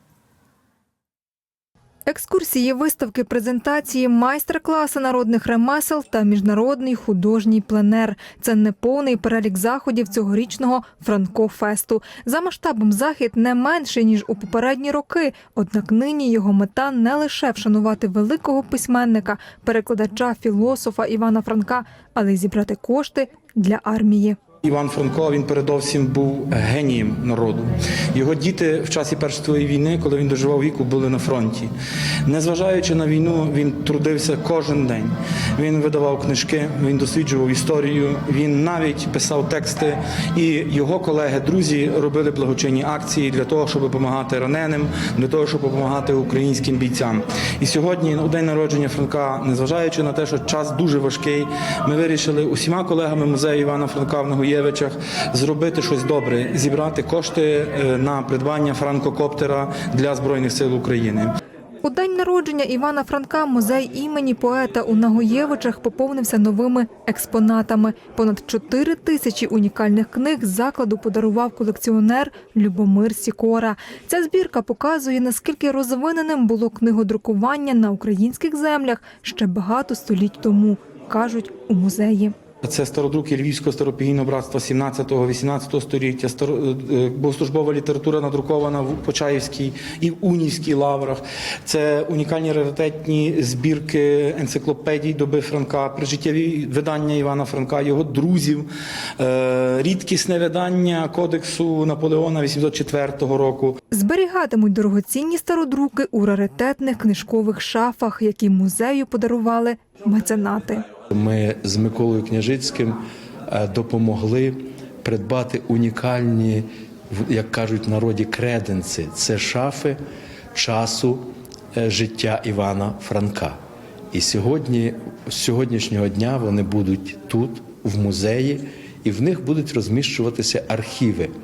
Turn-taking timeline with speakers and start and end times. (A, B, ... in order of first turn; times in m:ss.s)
0:02.1-0:24.4 A
0:24.6-0:31.7 B
0:32.2-1:01.3 B
1:01.8-1:22.3 A
1:22.6-1:38.6 B
1:39.2-1:43.8 B
1:43.9-1:50.8 A
1:51.1-2:00.0 C
2:00.5-2:03.6 C
2:04.1-2:11.3 C